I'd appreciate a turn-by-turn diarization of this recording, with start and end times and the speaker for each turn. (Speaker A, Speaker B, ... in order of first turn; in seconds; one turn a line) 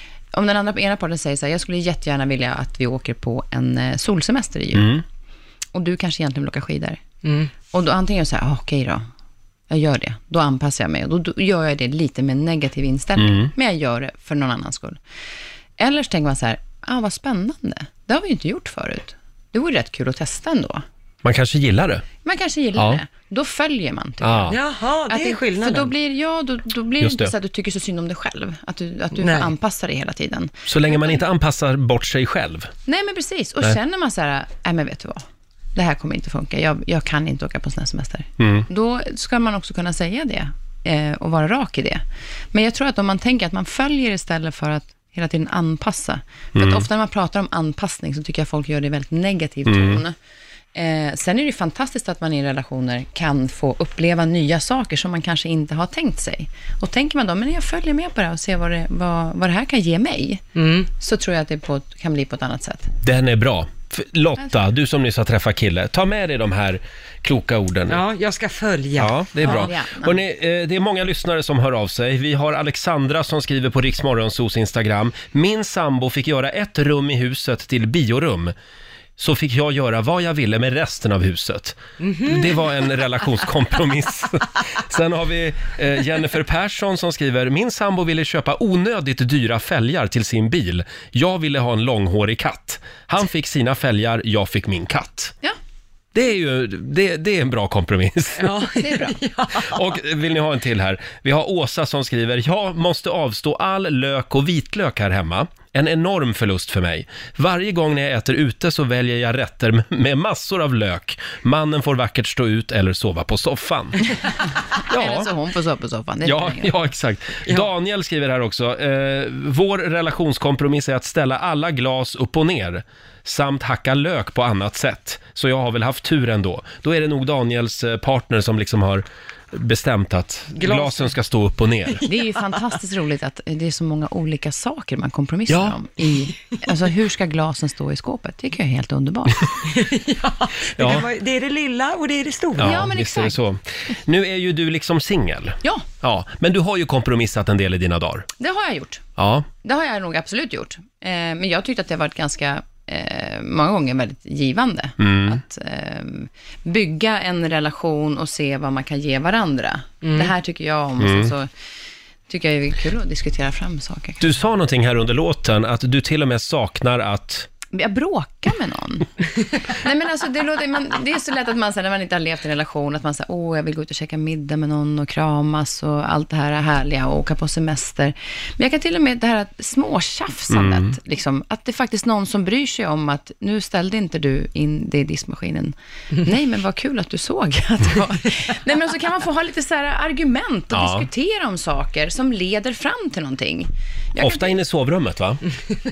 Speaker A: 0.3-5.0
Speaker B: 4.7-5.0
Speaker A: 5.7-7.0
Speaker C: 7.2-7.5
Speaker A: 7.7-9.1
Speaker A: 9.7-15.0
Speaker B: 13.2-13.5
Speaker A: 15.8-20.8
Speaker B: 21.2-22.1
Speaker A: 22.2-24.6
Speaker B: 22.8-23.0
Speaker B: 24.2-24.6
Speaker C: 24.5-25.9
Speaker A: 25.1-31.2
Speaker B: 27.0-27.3
Speaker C: 29.2-29.5
Speaker B: 30.7-32.7
Speaker A: 32.9-35.2
Speaker A: 35.7-50.1
Speaker B: 38.4-38.7
Speaker B: 46.5-46.8
Speaker B: 49.7-50.0
Speaker A: 50.7-60.4
Speaker C: 60.5-60.9
Speaker A: 60.9-62.9
Speaker B: 63.0-68.0
Speaker C: 67.9-69.7
Speaker B: 69.0-78.5
Speaker A: 69.4-70.2
Speaker B: 79.2-95.3
Speaker C: 82.0-82.6
Speaker B: 96.1-98.7
Speaker C: 98.4-99.8
Speaker A: 98.8-99.2
Speaker B: 99.6-114.0
Speaker A: 114.7-116.7
Speaker B: 114.9-115.3
Speaker B: 116.2-132.0
Speaker C: 130.6-131.1
Speaker A: 132.1-139.6
Speaker B: 135.5-135.8
Speaker C: 139.7-142.8
Speaker B: 140.8-141.1
Speaker B: 142.6-148.3
Speaker A: 142.6-143.4
Speaker A: 148.4-149.0
Speaker B: 149.2-149.5
Speaker A: 149.6-161.5
Speaker B: 155.0-155.4
Speaker C: 160.0-160.3
Speaker B: 161.0-161.3
Speaker A: 162.3-164.3
Speaker B: 164.2-167.5
Speaker A: 167.7-169.1
Speaker A: 169.6-194.6
Speaker B: 180.5-180.9
Speaker B: 190.7-191.1
Speaker B: 194.2-195.4